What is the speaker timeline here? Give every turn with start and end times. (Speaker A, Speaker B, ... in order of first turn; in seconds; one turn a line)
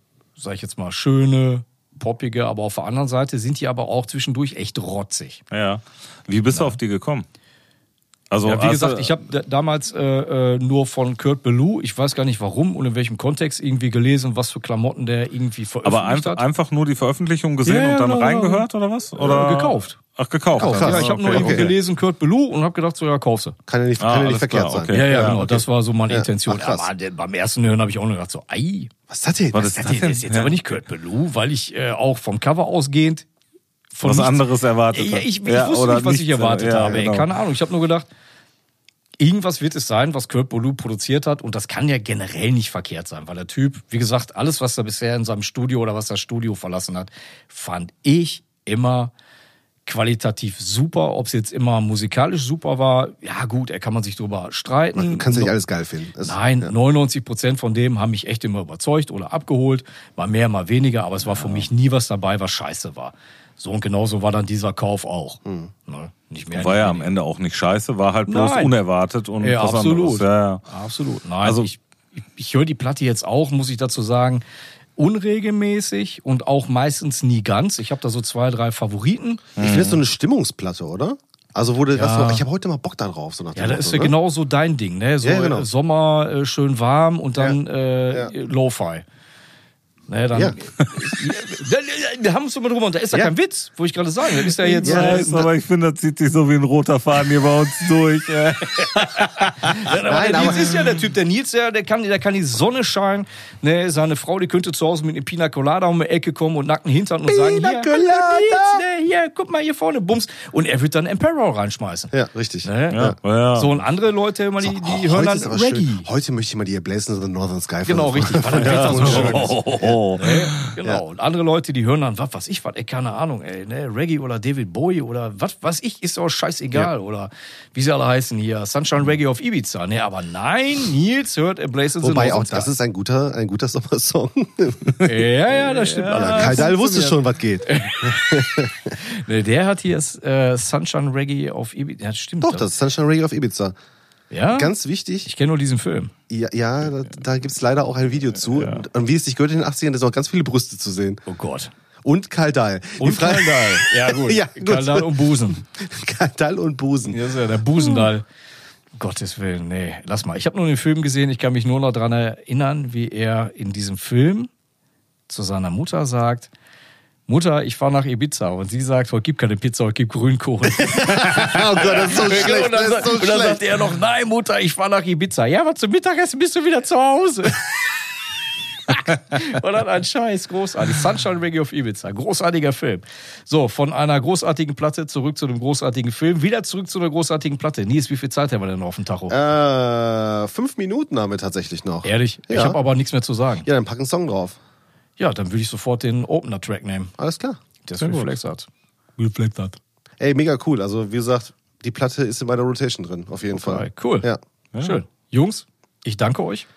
Speaker A: 0.4-5.4
Speaker B: 5.5-7.3
Speaker B: 8.3-9.2
Speaker A: 8.4-16.4
Speaker B: 15.8-21.8
Speaker A: 17.6-18.6
Speaker A: 19.2-20.0
Speaker A: 20.6-23.6
Speaker C: 20.6-21.7
Speaker C: 23.7-26.9
Speaker B: 24.0-25.4
Speaker A: 24.9-28.9
Speaker C: 29.1-29.8
Speaker B: 29.5-30.6
Speaker A: 29.8-33.3
Speaker A: 33.9-38.1
Speaker B: 34.0-37.3
Speaker A: 39.2-49.1
Speaker A: 49.9-55.5
Speaker C: 55.0-56.8
Speaker A: 56.2-67.1
Speaker B: 61.2-61.7
Speaker C: 65.5-65.7
Speaker B: 66.5-70.6
Speaker A: 68.3-68.8
Speaker A: 69.4-74.4
Speaker B: 71.4-71.7
Speaker A: 75.0-79.4
Speaker B: 79.6-80.0
Speaker C: 79.6-84.1
Speaker A: 81.9-82.5
Speaker A: 83.5-89.0
Speaker C: 85.2-85.7
Speaker A: 90.1-95.5
Speaker B: 94.7-99.8
Speaker C: 94.8-95.3
Speaker A: 99.2-116.1
Speaker C: 100.0-100.8
Speaker B: 100.4-100.9
Speaker C: 107.3-108.8
Speaker C: 112.1-113.2
Speaker B: 112.9-113.8
Speaker C: 114.6-120.0
Speaker A: 117.8-132.7
Speaker B: 118.6-120.6
Speaker C: 132.0-138.7
Speaker A: 135.0-142.7
Speaker B: 135.7-136.9
Speaker C: 142.4-143.8
Speaker A: 144.3-146.1
Speaker C: 144.5-145.3
Speaker C: 146.3-151.2
Speaker A: 151.3-151.7
Speaker C: 152.0-157.2
Speaker A: 153.0-155.6
Speaker A: 157.1-158.2
Speaker C: 157.8-158.1
Speaker A: 158.9-164.5
Speaker A: 165.3-166.5
Speaker A: 167.3-177.9
Speaker C: 170.8-173.7
Speaker A: 178.9-189.4
Speaker C: 189.3-192.8
Speaker A: 192.0-193.7
Speaker C: 193.6-194.6
Speaker A: 195.2-197.1
Speaker C: 197.2-197.6
Speaker A: 197.8-199.8
Speaker B: 198.0-198.4
Speaker C: 200.2-204.4
Speaker A: 203.5-206.7